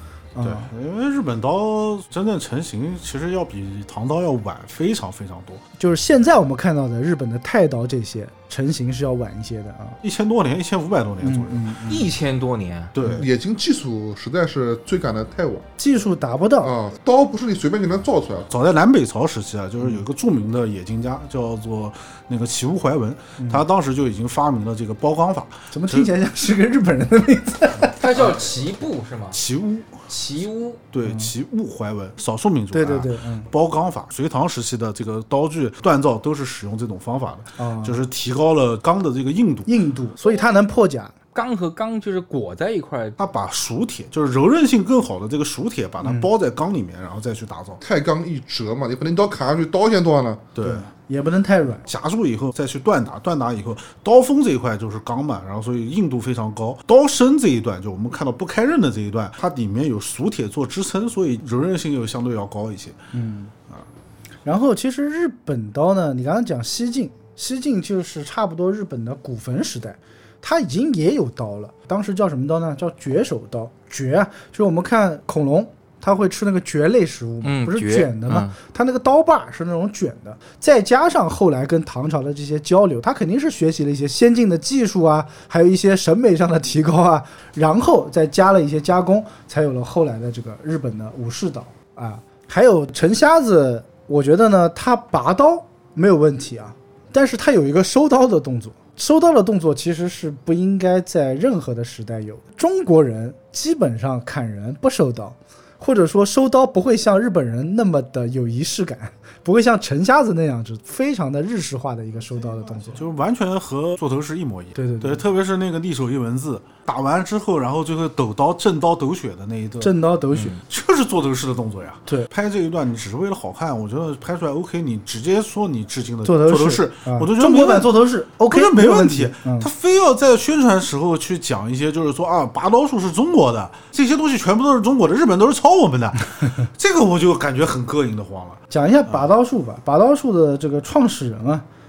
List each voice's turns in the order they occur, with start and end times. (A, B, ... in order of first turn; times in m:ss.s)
0:00.3-0:00.7 A
0:00.4-0:05.6 B
0:05.8-0:10.0 A
0:10.0-0:11.9 B
0:11.2-0:12.1 A
0:11.9-0:12.9 C
0:12.9-0:13.3 B
0:13.1-0:15.7 D
0:15.8-0:16.7 A
0:16.6-0:18.5 D
0:18.5-0:26.1 B
0:25.7-0:28.4 A
0:28.0-0:29.4 C
0:29.3-0:30.0 B
0:30.1-0:30.8 C
0:30.9-0:39.7 B
0:31.0-0:31.3 A
0:32.7-0:33.5 A
0:37.6-0:38.0 A
0:39.7-0:41.1 A
0:41.3-0:43.2 C
0:43.2-0:47.8 B
0:46.0-0:46.3 A
0:47.8-0:50.5 D
0:50.5-0:50.9 B
0:50.6-0:51.8 A
0:51.8-1:03.0 B
1:03.1-1:03.5 A
1:04.4-1:53.0 A
1:17.4-1:18.5 C
1:52.8-2:19.3 B
1:54.8-1:55.2 A
1:59.8-2:00.6 A
2:06.2-2:09.7 A
2:18.7-2:21.6 A